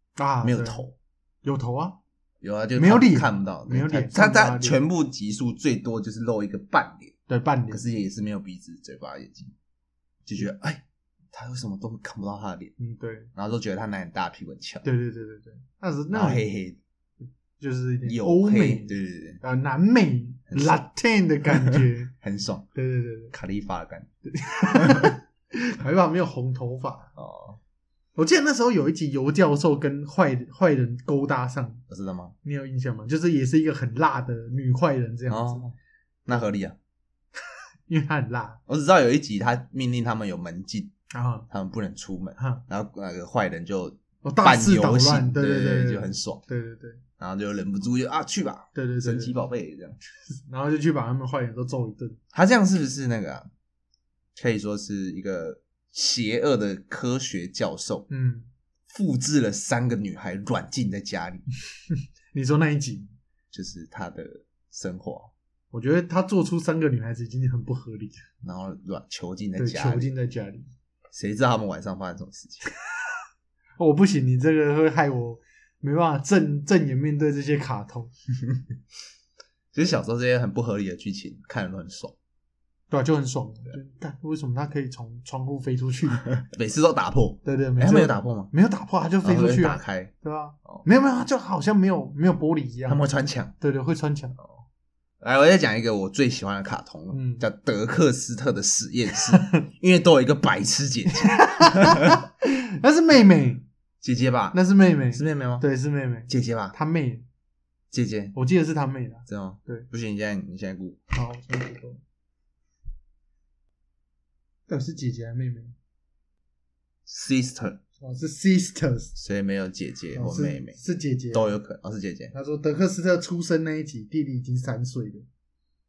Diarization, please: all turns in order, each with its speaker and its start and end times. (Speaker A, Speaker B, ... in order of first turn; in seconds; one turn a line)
Speaker A: 0.2-0.8
Speaker B: 0.4-0.9
Speaker A: 1.4-2.0
Speaker B: 2.4-7.1
Speaker A: 2.8-4.8
Speaker A: 7.3-7.9
Speaker B: 7.7-9.5
Speaker B: 10.2-12.7
Speaker A: 12.8-13.3
Speaker B: 13.3-14.8
Speaker A: 14.8-16.4
Speaker B: 16.1-16.8
Speaker A: 17.6-22.1
Speaker B: 18.0-19.4
Speaker B: 20.5-20.8
Speaker B: 21.6-22.6
Speaker A: 22.7-23.3
Speaker B: 23.3-24.1
Speaker A: 24.2-27.1
Speaker B: 24.8-25.1
Speaker B: 27.1-27.6
Speaker A: 28.1-31.8
Speaker B: 31.9-32.3
Speaker A: 32.4-35.7
Speaker B: 35.3-35.7
Speaker B: 36.3-36.8
Speaker A: 37.9-38.6
Speaker B: 38.7-40.9
Speaker A: 41.1-41.5
Speaker B: 41.5-46.4
Speaker A: 42.4-42.6
Speaker A: 44.2-47.0
Speaker B: 47.2-50.0
Speaker A: 48.7-49.3
Speaker A: 50.3-52.2
Speaker B: 52.3-53.5
Speaker B: 54.3-58.1
Speaker A: 58.1-58.5
Speaker B: 58.9-61.4
Speaker A: 62.3-63.1
Speaker B: 63.5-65.3
Speaker A: 65.7-68.2
Speaker B: 68.4-70.0
Speaker A: 69.5-70.7
Speaker B: 71.1-72.6
Speaker A: 73.8-78.1
Speaker B: 79.7-82.1
Speaker A: 82.9-86.2
Speaker B: 86.3-88.5
Speaker A: 87.4-93.0
Speaker B: 89.2-90.1
Speaker B: 92.9-93.5
Speaker A: 93.6-94.4
Speaker B: 95.2-102.2
Speaker A: 97.1-97.4
Speaker A: 99.3-99.6
Speaker A: 101.1-103.6
Speaker B: 104.0-104.6
Speaker A: 104.5-107.2
Speaker B: 105.1-105.6
Speaker B: 106.3-106.7
Speaker B: 107.9-108.3
Speaker A: 108.3-109.9
Speaker B: 109.3-111.0
Speaker A: 111.1-112.0
Speaker A: 114.7-115.7
Speaker B: 117.0-117.8
Speaker A: 118.0-119.1
Speaker B: 119.1-120.8
Speaker A: 120.1-121.5
Speaker B: 121.3-122.3
Speaker A: 122.3-125.2